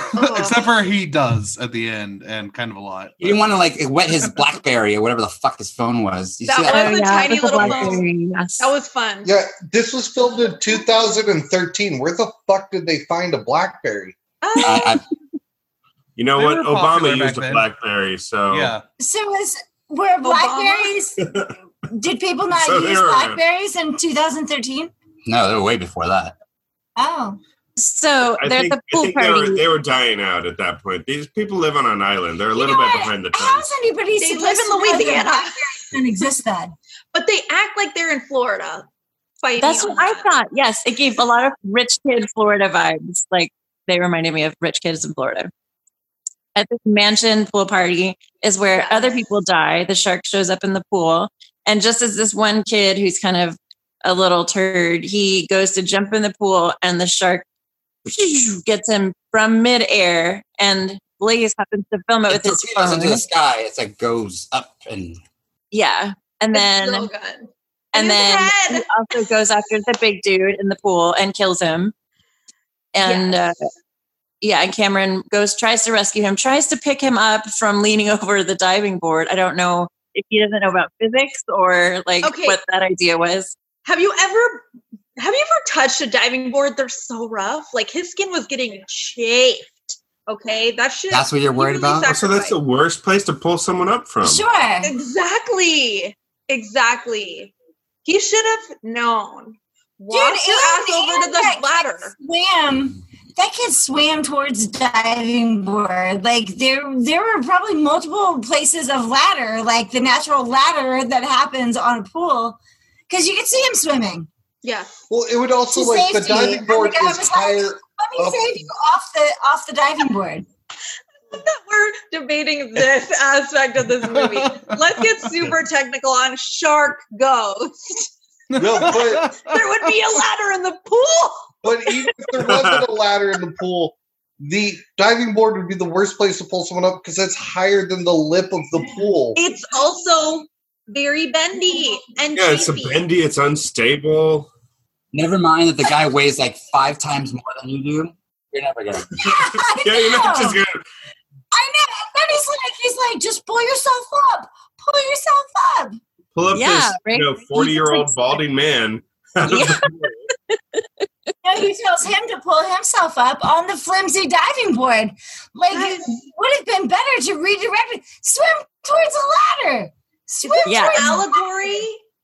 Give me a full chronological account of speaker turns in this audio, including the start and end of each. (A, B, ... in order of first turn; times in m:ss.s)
0:00.1-0:03.6 A
0:00.2-0:00.6 B
0:03.2-0:07.0 C
0:06.4-0:08.0 B
0:06.7-0:08.7 D
0:07.6-0:08.0 C
0:08.6-0:09.3 B
0:09.2-0:14.2 E
0:14.4-0:15.0 B
0:14.6-0:15.0 C
0:16.2-0:18.7 F
0:16.3-0:17.7 A
0:18.5-0:18.8 A
0:19.0-0:21.3 G
0:20.2-0:20.9 B
0:21.2-0:21.5 F
0:21.9-0:24.9 G
0:22.5-0:23.4 F
0:25.2-0:26.4 C
0:27.0-0:27.4 G
0:27.8-0:29.6 D
0:28.4-0:33.7 F
0:32.5-0:36.7 G
0:34.2-0:35.6 B
0:37.1-0:38.9 B
0:39.4-0:40.3 B
0:39.6-0:45.5 D
0:46.5-0:57.4 D
0:48.8-0:49.2 B
0:58.0-1:03.2 D
1:02.3-1:05.2 C
1:05.7-1:07.1 D
1:06.5-1:08.9 B
1:07.9-1:11.9 D
1:12.9-1:13.6 D
1:13.0-1:13.5 B
1:14.4-1:23.5 D
1:22.2-1:22.6 B
1:23.8-1:24.6 B
1:25.2-1:32.6 B
1:31.1-1:32.1 C
1:32.1-1:34.4 F
1:34.2-1:34.9 G
1:34.8-1:37.5 B
1:38.0-1:42.1 B
1:40.1-1:54.3 G
1:54.6-1:54.9 B
1:55.1-1:58.6 E
1:55.7-2:00.4 G
2:01.3-2:08.1 B
2:04.1-2:04.8 A
2:08.5-2:09.7 A
2:08.6-2:09.3 E
2:09.4-2:11.5 B
2:11.6-2:19.4 E
2:12.4-2:12.8 F
2:19.3-2:23.0 B
2:22.3-2:24.5 F
2:25.1-2:29.3 C
2:29.2-2:30.6 G
2:29.7-2:30.8 F
2:31.5-2:36.0 G
2:36.3-2:40.1 F
2:36.5-2:38.4 D
2:39.5-2:39.9 D
2:40.5-2:40.8 D
2:41.4-2:51.3 G
2:45.7-2:46.2 B
2:50.4-2:52.0 B
2:50.6-2:51.0 D